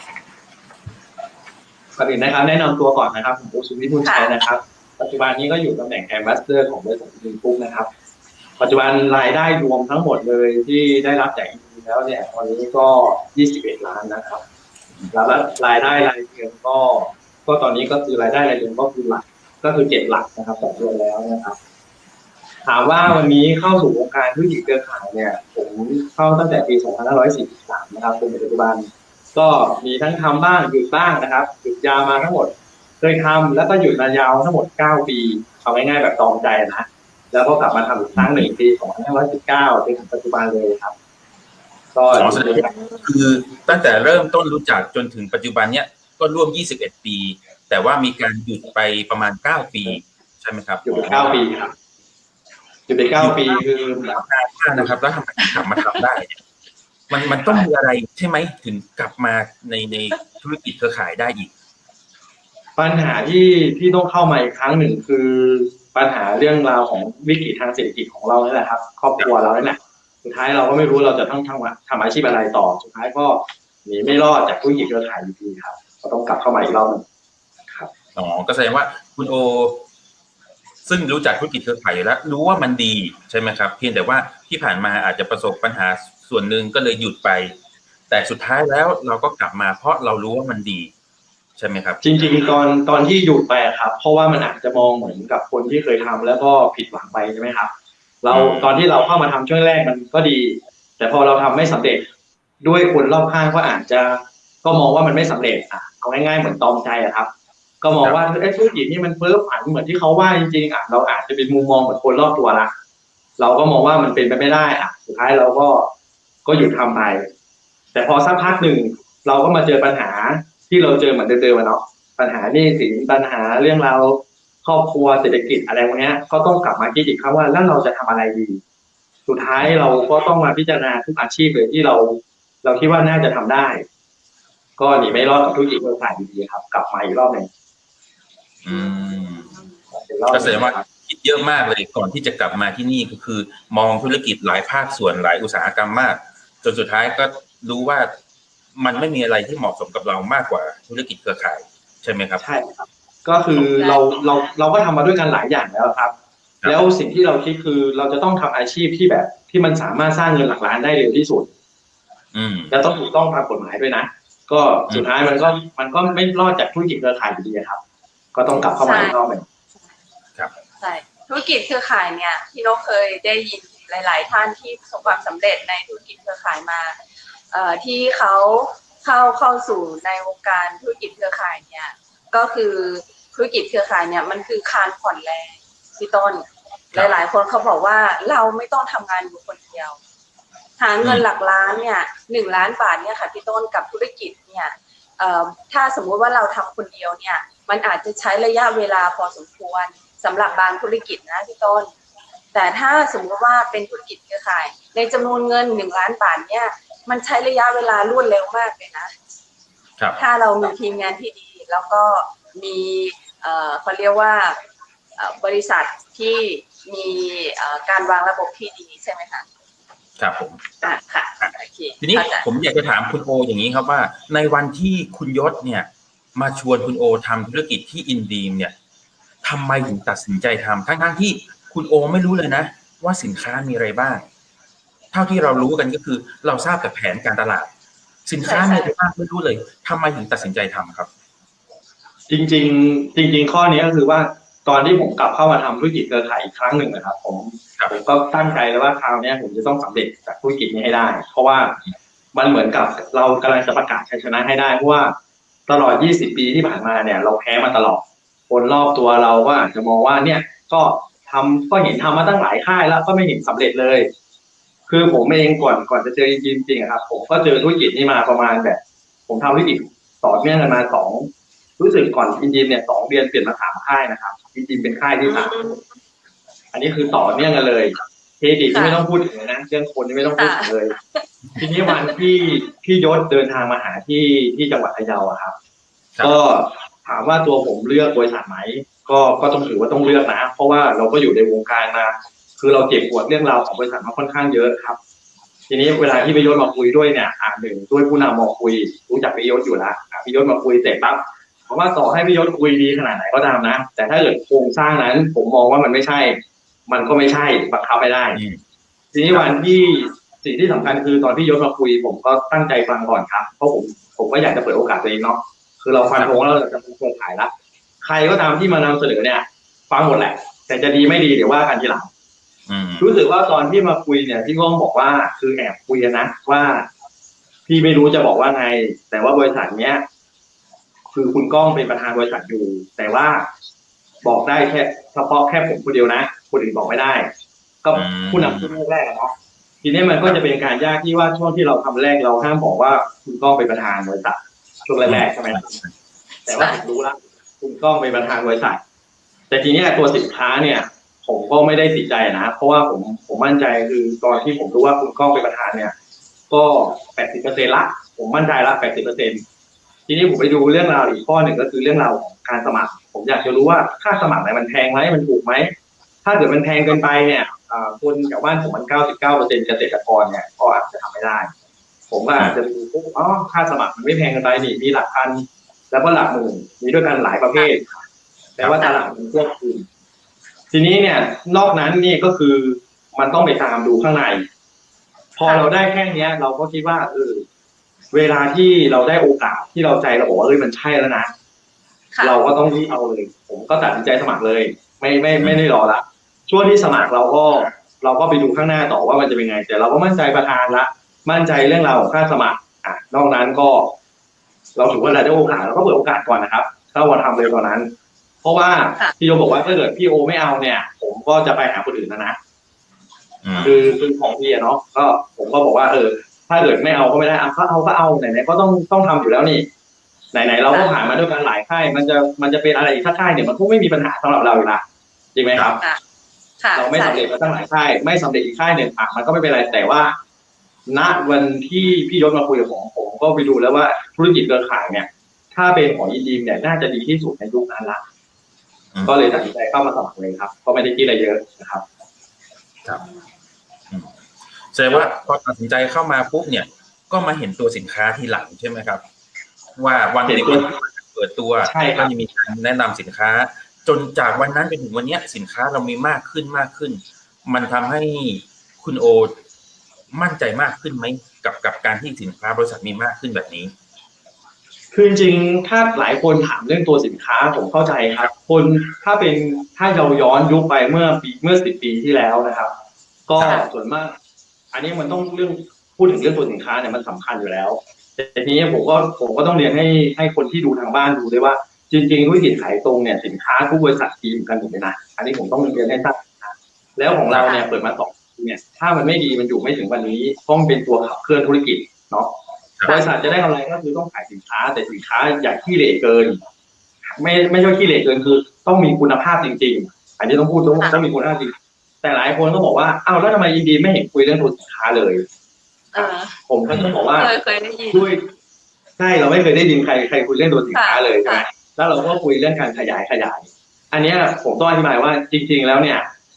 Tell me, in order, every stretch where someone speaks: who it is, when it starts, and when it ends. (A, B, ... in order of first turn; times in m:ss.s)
0:02.0-0:07.9 A
0:04.0-0:04.3 B
0:08.6-0:14.4 A
0:15.1-0:21.6 A
0:22.6-0:40.9 A
0:38.1-0:38.5 C
0:41.9-0:42.7 A
0:42.1-0:51.4 C
0:42.6-0:43.0 B
0:50.8-0:51.7 A
0:52.9-0:54.2 A
0:53.1-0:56.3 C
0:55.4-0:56.0 B
0:57.1-1:01.5 C
1:02.8-1:17.0 A
1:18.2-1:19.8 C
1:20.8-1:27.5 C
1:28.1-1:30.9 C
1:31.6-1:32.0 C
1:32.0-1:37.7 A
1:38.2-1:42.1 A
1:38.3-1:38.7 C
1:42.6-1:47.3 A
1:47.8-1:52.7 A
1:53.4-1:55.9 A
1:56.4-1:57.3 A
1:57.9-2:08.6 A
2:09.3-2:13.8 A
2:09.6-2:09.8 C
2:14.8-2:17.5 A
2:18.6-2:19.6 C
2:18.7-2:19.1 B
2:19.9-2:20.8 A
2:20.3-2:28.1 C
2:28.7-2:32.4 C
2:32.4-2:36.1 A
2:33.6-2:34.5 B
2:36.6-2:41.5 A
2:42.3-2:42.8 C
2:42.7-2:47.8 A
2:44.9-2:45.2 C
2:48.3-2:49.4 A
2:48.8-2:49.2 B
2:50.8-2:57.0 B
2:57.5-3:10.0 B
3:10.8-3:21.9 B
3:11.0-3:11.2 C
3:22.5-3:29.1 B
3:30.0-3:30.2 C
3:30.2-3:34.5 B
3:35.2-3:39.4 B
3:40.2-3:40.7 C
3:40.8-3:42.4 B
3:41.4-3:48.7 C
3:49.4-3:54.2 C
3:55.1-3:57.7 C
3:58.2-4:01.1 C
3:58.4-3:58.9 B
4:02.3-4:11.8 A
4:12.3-4:15.1 A
4:15.7-4:24.1 A
4:24.9-4:35.7 A
4:35.2-4:35.8 B
4:36.7-4:40.9 A
4:38.7-4:39.0 B
4:40.3-4:41.2 B
4:41.6-4:45.5 A
4:41.8-4:42.1 B
4:46.2-4:55.0 A
4:55.7-5:08.4 A
5:08.3-5:08.6 C
5:09.1-5:17.5 A
5:18.0-5:22.1 A
5:22.7-5:23.1 C
5:23.0-5:26.9 A
5:27.7-5:30.0 A
5:31.1-5:33.4 A
5:34.2-5:37.3 A
5:37.8-5:39.3 A
5:37.9-5:38.7 C
5:39.8-5:45.7 A
5:45.0-5:45.9 C
5:46.4-5:48.8 A
5:46.5-5:46.8 B
5:49.5-5:55.9 A
5:56.5-5:59.4 A
6:00.1-6:05.7 A
6:06.2-6:11.5 A
6:12.1-6:18.0 A
6:18.6-6:19.8 A
6:18.7-6:19.0 B
6:20.7-6:24.4 A
6:25.4-6:27.4 A
6:28.1-6:31.3 A
6:32.1-6:32.5 B
6:32.2-6:44.0 A
6:44.8-6:47.9 A
6:48.4-6:52.4 A
6:53.4-6:53.8 C
6:53.6-6:59.7 A
7:00.3-7:04.8 A
7:00.7-7:00.9 B
7:05.3-7:05.8 A
7:06.6-7:07.2 B
7:06.8-7:10.1 A
7:10.9-7:18.0 A
7:18.9-7:19.2 C
7:19.0-7:21.8 A
7:24.7-7:29.0 C
7:29.8-7:39.3 C
7:30.2-7:30.7 A
7:31.6-7:32.1 A
7:40.1-7:43.7 C
7:44.9-7:52.7 A
7:53.3-7:54.1 A
7:53.4-7:53.7 B
7:54.7-8:12.3 A
8:07.4-8:07.6 B
8:12.9-8:13.2 B
8:12.9-8:16.4 A
8:17.0-8:25.2 A
8:25.9-8:26.3 B
8:26.0-8:27.3 A
8:26.9-8:28.1 B
8:27.9-8:28.2 A
8:29.0-8:36.0 A
8:30.7-8:31.4 B